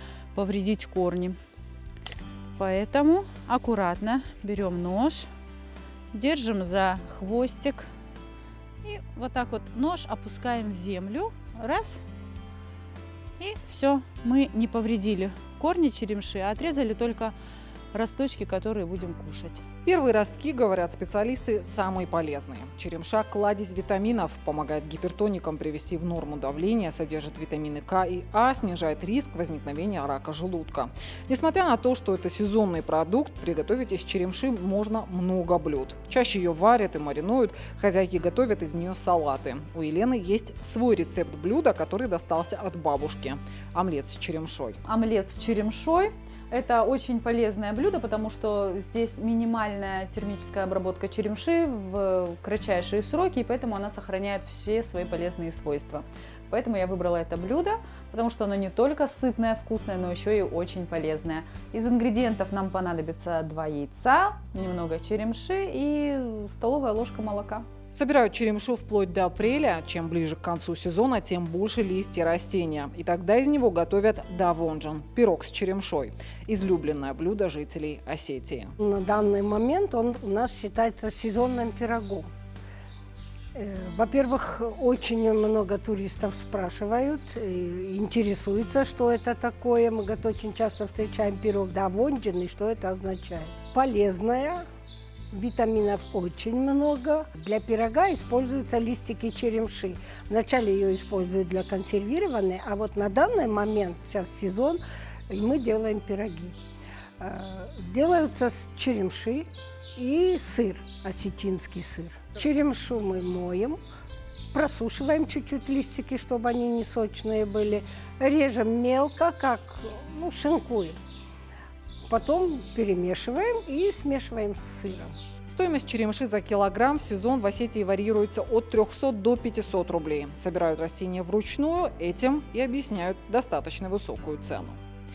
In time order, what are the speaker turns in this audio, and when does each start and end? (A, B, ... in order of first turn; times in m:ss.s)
0:00.3-0:01.4 A
0:02.6-0:05.3 A
0:06.1-0:07.9 A
0:08.8-0:12.0 A
0:13.4-0:17.3 A
0:17.9-0:19.6 A
0:19.8-0:44.8 B
0:44.8-1:07.7 A
1:07.9-1:18.7 B
1:18.8-1:22.3 C
1:23.5-1:34.6 C
1:35.3-1:46.6 C
1:47.2-1:53.8 C
1:54.5-2:01.0 C
2:02.1-2:05.1 C
2:05.5-2:14.8 B